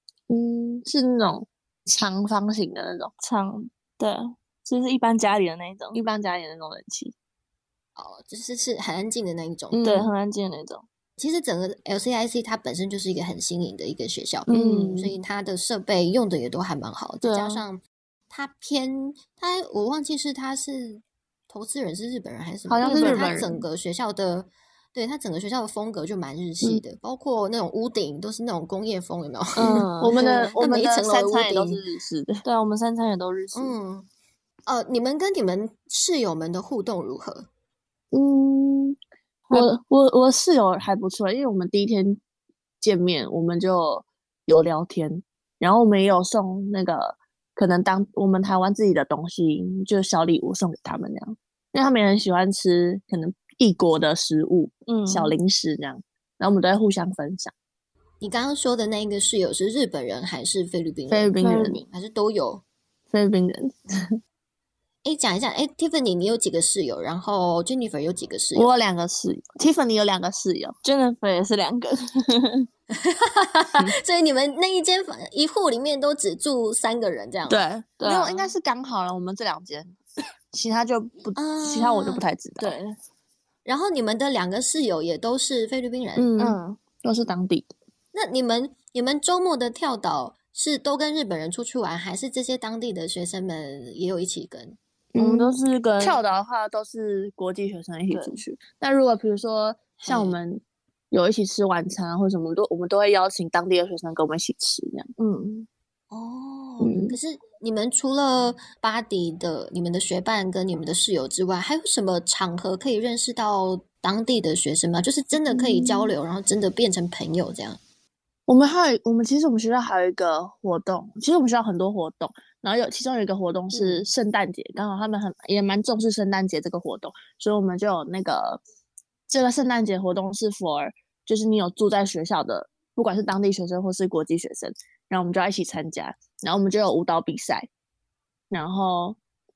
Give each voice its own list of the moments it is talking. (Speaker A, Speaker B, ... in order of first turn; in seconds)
Speaker A: 0.3-3.1, 5.9-7.1, 9.7-10.1, 14.5-15.1, 22.6-23.6, 29.6-32.4, 38.1-39.0, 39.5-42.2, 42.8-57.5, 61.1-61.8, 63.1-63.8, 68.5-70.7, 77.5-80.0, 80.5-82.7, 86.2-87.7, 95.1-105.1, 106.8-107.2, 115.5-116.1, 118.5-128.6, 129.3-137.7, 138.5-139.2
Speaker B: 3.2-6.0, 9.8-10.8, 14.5-15.0, 17.2-17.6, 22.8-23.3, 29.6-30.5, 32.4-33.7, 39.5-39.8, 54.9-55.3, 61.4-61.9, 70.8-72.7, 78.0-78.5, 82.6-83.0, 86.4-86.8, 95.2-96.2, 98.1-98.4, 105.2-105.7
Speaker C: 8.0-9.8, 11.2-31.8, 33.5-34.1, 34.6-37.5, 58.2-61.4, 61.9-62.6, 65.0-68.7, 72.9-77.6, 81.3-82.2, 83.6-86.3, 88.1-94.8, 100.0-100.4, 106.1-117.8, 123.7-124.0